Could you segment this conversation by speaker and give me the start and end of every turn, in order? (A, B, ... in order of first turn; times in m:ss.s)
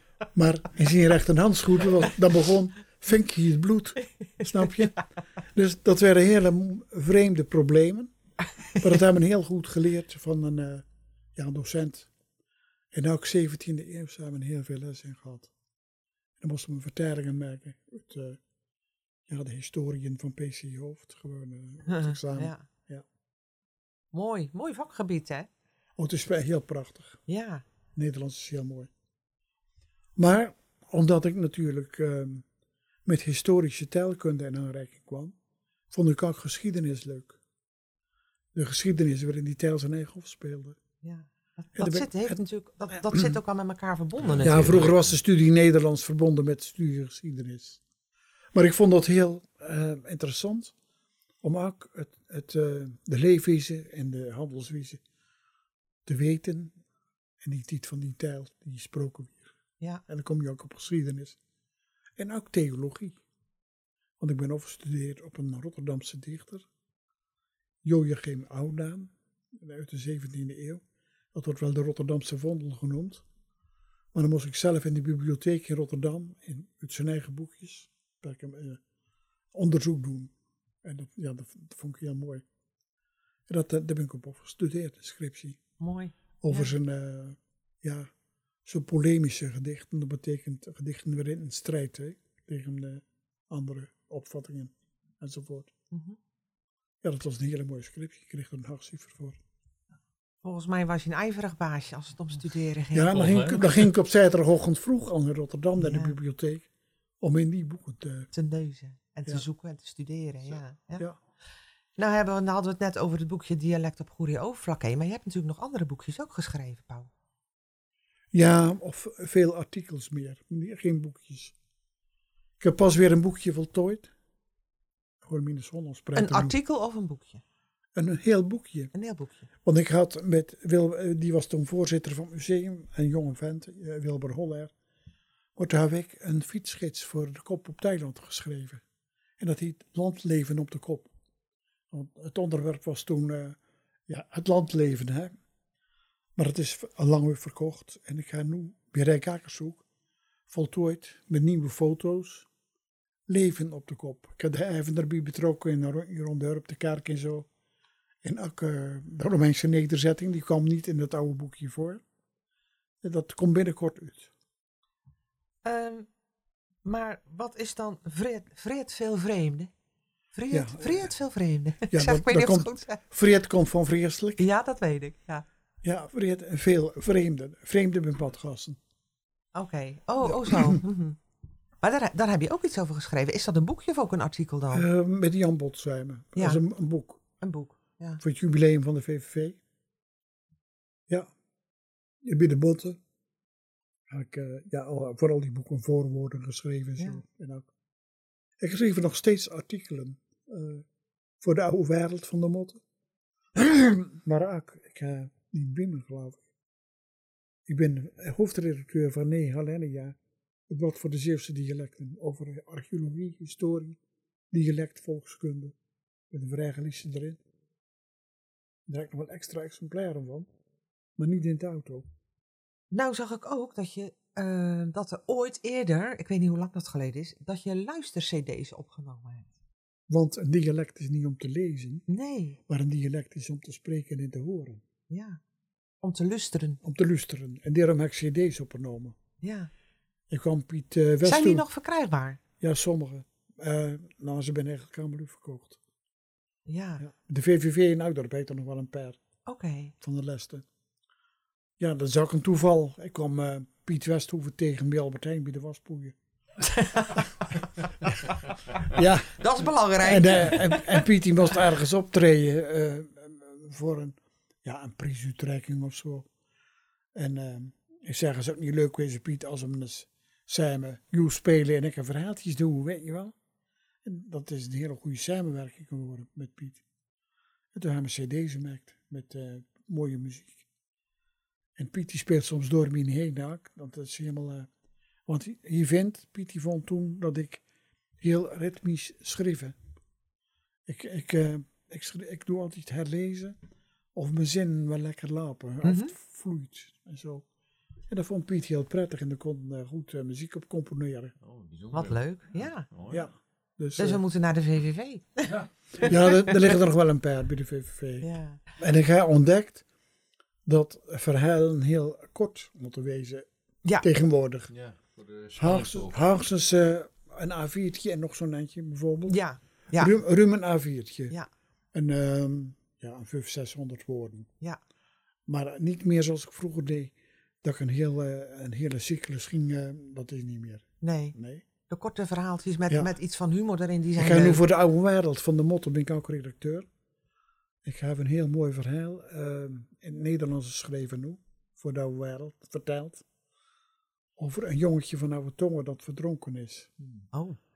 0:00.3-0:08.1 A
0:08.8-0:10.8 A
0:11.4-0:12.1 A
0:12.9-0:15.5 A
0:16.4-0:18.4 A
0:19.3-0:23.0 A
0:21.8-0:22.6 B
0:24.1-0:25.5 B
0:26.0-0:27.2 A
0:27.3-0:27.6 B
0:27.9-0:28.9 A
0:30.2-0:32.4 A
0:33.0-0:35.4 A
0:35.9-0:37.4 A
0:38.5-0:40.8 A
0:41.0-0:44.9 B
0:41.8-0:42.4 A
0:43.0-0:43.3 A
0:44.2-0:45.0 C
0:44.4-0:47.8 A
0:48.5-0:50.7 A
0:51.4-0:55.0 A
0:56.0-0:56.8 A
0:57.4-0:59.5 A
1:00.1-1:01.4 A
1:02.2-1:03.2 A
1:04.2-1:06.7 A
1:07.8-1:10.8 A
1:11.3-1:13.2 A
1:14.1-1:18.8 A
1:19.5-1:22.4 A
1:23.5-1:25.6 A
1:25.8-1:26.7 B
1:26.4-1:28.1 A
1:28.6-1:35.7 A
1:35.9-1:36.2 B
1:37.0-1:39.4 A
1:40.4-1:43.7 B
1:42.9-1:46.7 A
1:43.1-1:43.8 C
1:45.8-1:46.2 B
1:47.2-1:48.3 A
1:48.3-1:51.0 B
1:52.0-1:57.1 B
1:58.3-2:01.5 A
2:02.6-2:04.1 A
2:05.2-2:06.6 A
2:06.1-2:07.4 B
2:08.0-2:08.9 A
2:08.9-2:09.5 B
2:09.6-2:14.7 A
2:15.6-2:18.8 A
2:19.4-2:21.1 A
2:21.9-2:25.3 A
2:26.4-2:29.8 A
2:30.5-2:32.5 A
2:33.3-2:37.5 A
2:38.2-2:42.0 A
2:43.0-2:44.3 A
2:45.6-2:46.1 B
2:46.8-2:49.7 B
2:50.3-2:53.0 B
2:50.5-2:51.1 A
2:51.9-2:54.4 A
2:54.4-2:55.4 B
2:55.8-2:58.8 A
2:59.5-3:01.2 B
3:00.2-3:00.8 A
3:01.8-3:04.8 B
3:04.7-3:07.2 A
3:06.4-3:06.6 B
3:07.4-3:08.2 B
3:08.2-3:09.6 A
3:12.2-3:13.0 A
3:14.1-3:17.7 A
3:18.6-3:20.8 A
3:21.4-3:22.8 A
3:23.5-3:26.4 A
3:27.7-3:30.2 A
3:30.7-3:34.0 A
3:34.5-3:35.7 A
3:36.3-3:37.4 A
3:38.9-3:40.5 A
3:41.2-3:42.1 A
3:42.9-3:49.5 B
3:50.1-3:52.0 A
3:52.1-3:52.6 B
3:52.7-3:54.8 A
3:55.1-3:55.4 B
3:56.0-3:56.8 B
3:56.8-3:59.2 A
3:59.4-3:59.7 B
4:00.3-4:01.6 A
4:01.2-4:02.4 B
4:02.6-4:05.8 A
4:06.7-4:07.0 B
4:07.0-4:09.2 A
4:09.4-4:09.9 B
4:10.0-4:10.6 A
4:11.8-4:16.2 A
4:16.6-4:17.2 B
4:18.8-4:19.4 A
4:19.4-4:21.0 B
4:20.0-4:26.3 A
4:27.1-4:33.3 A
4:34.0-4:36.8 A
4:37.7-4:40.6 A
4:41.8-4:44.7 A
4:45.2-4:47.6 A
4:48.2-4:49.8 A
4:50.9-4:53.6 A
4:54.1-4:57.4 A
4:55.8-4:56.1 B
4:58.1-5:01.3 A
5:01.4-5:03.3 C
5:01.9-5:02.9 B
5:03.1-5:04.2 A
5:04.0-5:06.1 B
5:06.0-5:09.8 A
5:08.2-5:08.6 B
5:10.6-5:13.5 A
5:14.0-5:14.7 A
5:14.7-5:16.2 C
5:15.5-5:19.4 A
5:19.3-5:20.1 B
5:19.9-5:21.3 A
5:21.9-5:24.5 A
5:25.5-5:31.6 A
5:31.0-5:31.4 B
5:31.9-5:34.6 B
5:34.2-5:36.9 A
5:37.8-5:43.2 A
5:44.4-5:46.9 A
5:47.3-5:47.6 B